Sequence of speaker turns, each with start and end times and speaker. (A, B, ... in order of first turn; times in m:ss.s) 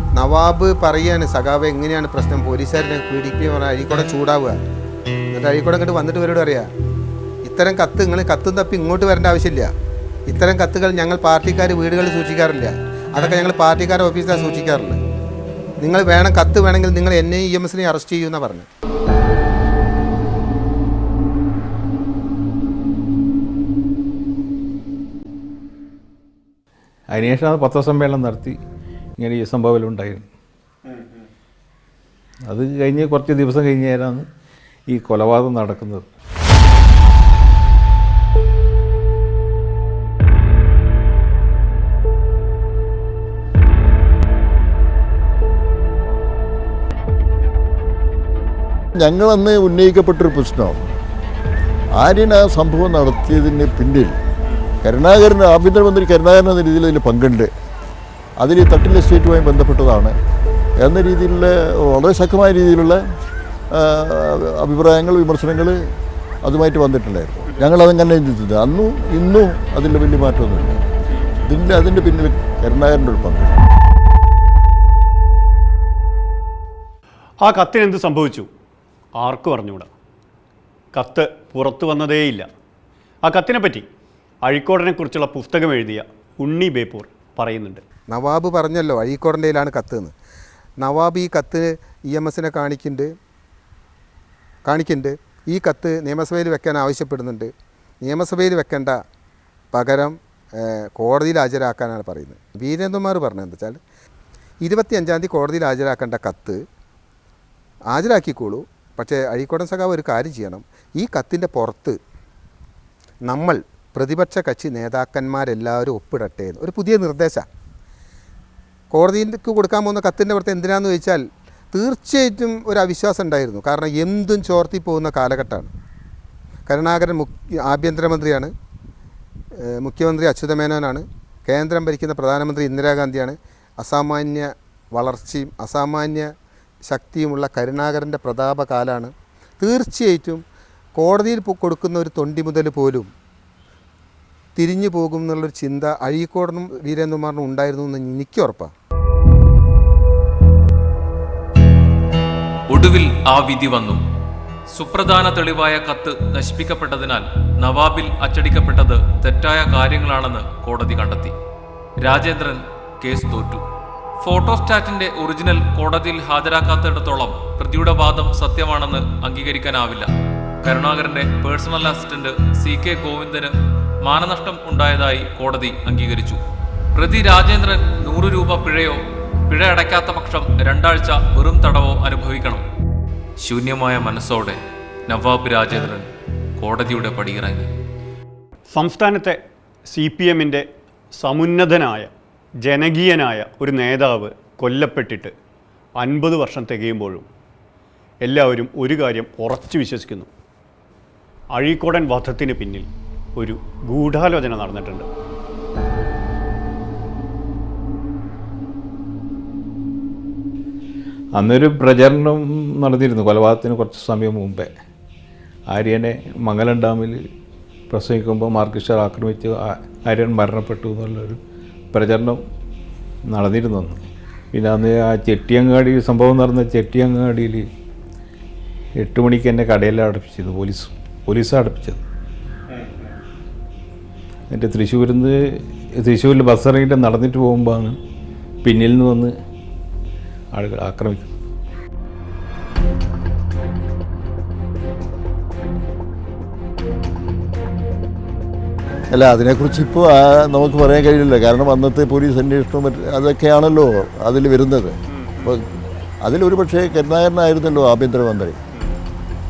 0:00.2-0:04.6 A
0:05.3-0:06.7 A
0:07.4-0:09.7 A
0:10.3-0:15.0 A
0:15.8-0:18.7 A
0:27.1-0:28.6 B
0:29.2-0:30.3 B
0:32.5-0:34.3 B
0:34.9-0:36.1 B
0:49.0-0:50.8 C
0:52.0-0:54.2 C
0:54.8-0:57.5 C
0:58.4-1:00.2 C
1:00.8-1:03.0 C
1:03.7-1:05.8 C
1:06.4-1:10.8 C
1:11.4-1:13.6 C
1:17.4-1:18.5 D
1:19.2-1:19.9 D
1:21.0-1:22.5 D
1:23.2-1:23.9 D
1:24.5-1:27.8 D
1:28.1-1:30.1 A
1:30.8-1:33.1 A
1:34.7-1:37.5 A
1:38.0-1:39.0 A
1:39.7-1:43.8 A
1:44.6-1:46.6 A
1:47.9-1:52.0 A
1:53.3-1:57.5 A
1:58.9-2:05.7 A
2:06.7-2:08.5 A
2:09.6-2:16.3 A
2:16.9-2:20.4 A
2:21.0-2:23.1 A
2:24.6-2:28.7 A
2:32.7-2:34.0 E
2:34.7-2:41.4 E
2:42.0-2:43.6 E
2:44.2-2:50.1 E
2:50.6-2:56.4 E
2:57.0-3:02.6 E
3:03.4-3:06.1 E
3:06.6-3:07.7 E
3:08.7-3:10.7 D
3:11.2-3:12.1 D
3:12.6-3:15.3 D
3:16.0-3:17.3 D
3:18.2-3:20.3 D
3:21.5-3:25.1 D
3:31.4-3:34.7 B
3:35.7-3:37.2 B
3:37.9-3:41.4 B
3:41.9-3:42.4 B
3:43.3-3:44.0 B
3:44.5-3:47.7 B
3:49.0-3:52.0 B
3:52.7-3:53.1 D
3:54.5-3:58.0 B
3:58.6-3:59.3 B
4:00.5-4:01.3 B
4:09.1-4:15.6 C
4:15.1-4:15.6 D
4:16.2-4:18.6 C